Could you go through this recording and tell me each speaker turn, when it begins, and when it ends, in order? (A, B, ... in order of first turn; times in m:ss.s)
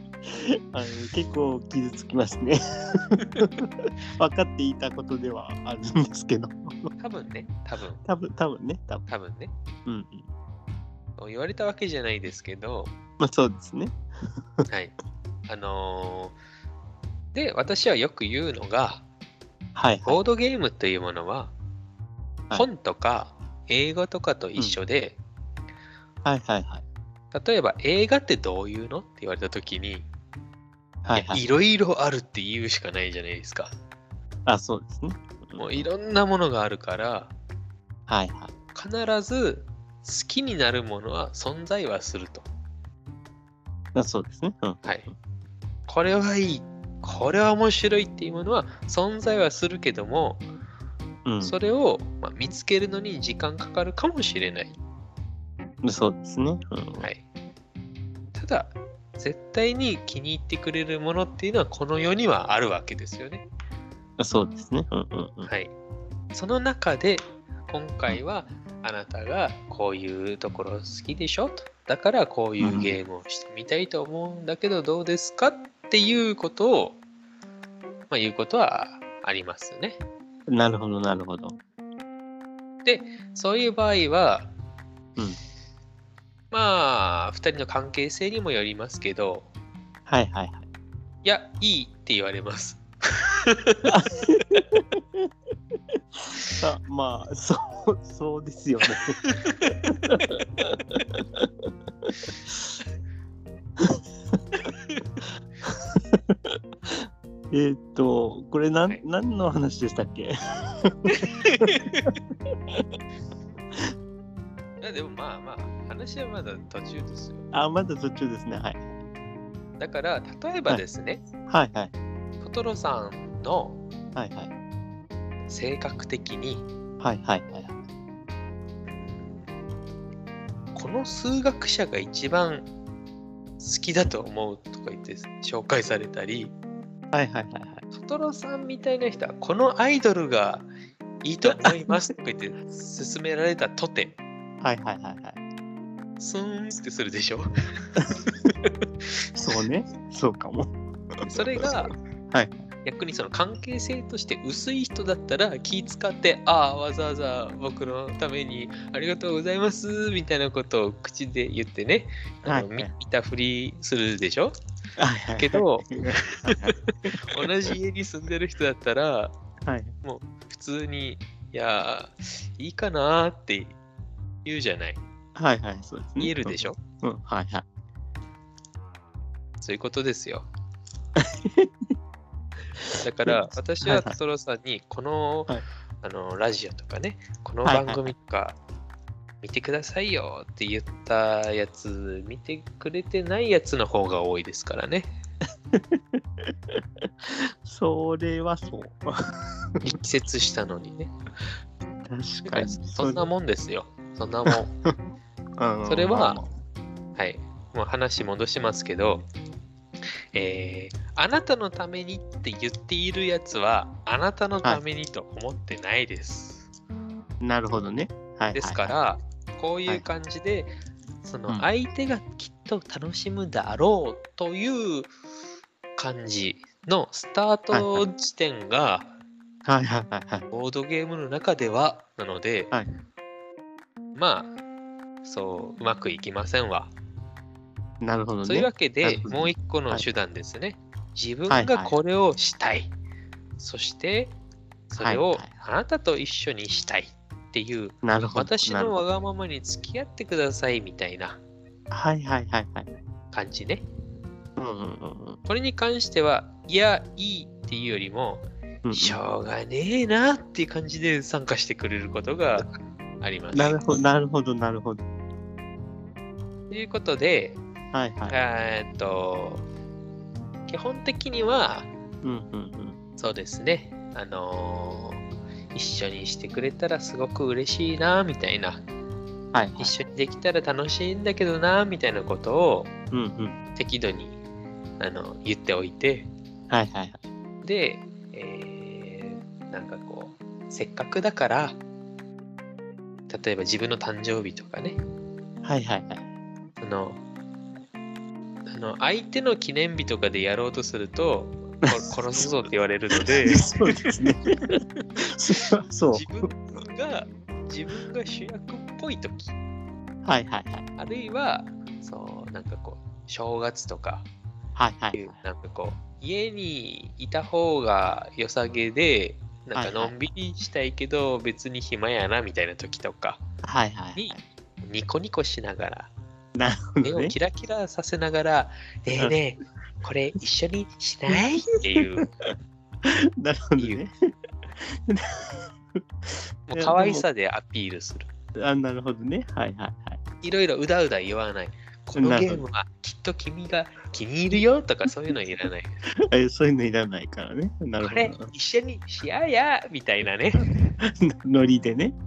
0:00.3-0:02.6 A
0:03.1-0:03.5 A
0:04.2-0:06.9 A
0:07.0-0:08.0 B
0:08.0-0:09.1 A
0:09.1-0:09.5 B
0:09.8-0:10.3 A
0:11.2-0:12.9 B
0:13.2-0:14.0 A
0:14.7-0:14.9 B
0:15.5-0:16.4 B
0:17.3-0:19.0 B
0:19.7-0:20.2 A
0:20.0-0:21.5 B
0:22.5-0:25.2 B
0:26.2-0:26.8 A
0:27.3-0:30.1 B
0:31.0-0:31.4 A
0:31.1-0:33.7 B
0:34.4-0:35.9 A
0:35.6-0:37.3 B
0:38.1-0:38.5 A
0:38.7-0:42.4 B
0:43.9-0:45.0 A
0:45.9-0:50.4 B
0:51.2-0:51.5 A
0:51.4-0:54.8 B
0:55.8-0:57.1 A
0:57.0-0:57.2 B
0:58.3-1:03.5 B
1:04.2-1:05.5 A
1:05.4-1:05.7 B
1:06.3-1:17.0 B
1:12.6-1:12.9 A
1:18.1-1:20.0 B
1:20.5-1:21.6 A
1:22.8-1:24.5 B
1:26.5-1:29.5 B
1:30.1-1:30.6 A
1:31.2-1:33.9 B
1:33.9-1:35.2 A
1:36.5-1:39.2 A
1:39.2-1:39.8 B
1:39.9-1:41.5 A
1:44.7-1:45.0 B
1:45.6-1:47.0 A
1:47.5-1:50.3 A
1:50.8-1:52.1 A
1:51.2-1:52.1 B
1:54.8-1:57.4 B
1:57.5-1:58.9 A
1:59.8-2:01.2 B
2:01.5-2:01.9 A
2:02.4-2:03.8 B
2:04.2-2:04.5 A
2:05.5-2:06.7 B
2:07.0-2:07.8 A
2:08.9-2:09.4 B
2:10.7-2:12.7 B
2:13.6-2:16.5 B
2:17.1-2:17.8 A
2:17.9-2:20.7 B
2:21.2-2:24.2 B
2:21.5-2:21.9 A
2:24.6-2:25.4 A
2:26.2-2:27.5 B
2:28.3-2:28.7 B
2:29.4-2:30.7 A
2:31.2-2:31.9 B
2:32.8-2:44.5 B
2:42.4-2:42.9 A
2:45.0-2:47.3 A
2:45.4-2:46.7 B
2:47.3-2:49.3 B
2:49.6-2:49.9 A
2:50.0-2:53.8 B
2:54.4-2:55.0 B
2:55.4-2:57.6 A
2:56.2-2:56.8 B
2:59.6-3:00.5 B
3:01.2-3:01.7 A
3:03.0-3:08.6 B
3:03.2-3:04.1 A
3:07.6-3:08.1 A
3:09.4-3:15.1 B
3:16.7-3:19.1 A
3:19.8-3:21.1 B
3:22.1-3:23.3 A
3:22.4-3:24.7 B
3:24.5-3:24.9 A
3:25.6-3:26.5 A
3:25.8-3:26.4 B
3:27.2-3:29.3 B
3:30.3-3:36.7 B
3:37.4-3:39.0 A
3:38.5-3:45.1 B
3:46.0-3:49.1 B
3:47.7-3:48.1 A
3:49.6-3:50.5 A
3:50.5-3:52.7 B
3:54.2-3:54.5 B
3:55.2-3:56.9 B
3:58.0-4:00.0 A
3:58.4-4:02.9 B
4:01.5-4:01.9 A
4:03.6-4:04.4 B
4:04.9-4:11.4 B
4:05.0-4:05.4 A
4:08.0-4:09.0 A
4:11.9-4:12.9 A
4:13.3-4:13.8 B
4:14.6-4:15.4 A
4:15.5-4:22.7 B
4:18.8-4:19.2 A
4:23.2-4:23.8 B
4:23.5-4:25.0 A
4:26.7-4:27.6 B
4:27.9-4:28.4 A
4:28.3-4:29.6 B
4:30.7-4:31.9 B
4:32.2-4:33.0 A
4:33.2-4:35.2 B
4:35.7-4:38.8 B
4:39.5-4:40.0 A
4:39.8-4:42.9 B
4:43.1-4:43.6 A
4:43.7-4:44.4 B
4:45.0-4:46.3 B
4:46.7-4:47.2 A
4:47.6-4:51.8 B
4:53.3-4:55.0 B
4:55.6-4:56.2 A
4:56.8-4:57.2 B
4:58.7-5:04.1 B
5:01.8-5:02.5 A
5:03.2-5:04.5 A
5:05.2-5:06.3 A
5:06.1-5:09.5 B
5:10.2-5:10.8 A
5:11.0-5:14.2 B
5:14.8-5:15.4 A
5:15.1-5:23.4 B
5:19.7-5:20.1 A
5:23.6-5:24.4 A
5:24.1-5:26.1 B
5:26.6-5:27.3 A
5:27.0-5:32.3 B
5:33.0-5:34.1 A
5:35.1-5:35.7 A
5:36.3-5:37.2 A
5:36.7-5:38.3 B
5:38.6-5:40.2 A
5:40.4-5:46.0 B
5:42.2-5:42.6 A
5:46.3-5:48.5 A
5:48.0-5:50.7 B
5:50.6-5:52.1 A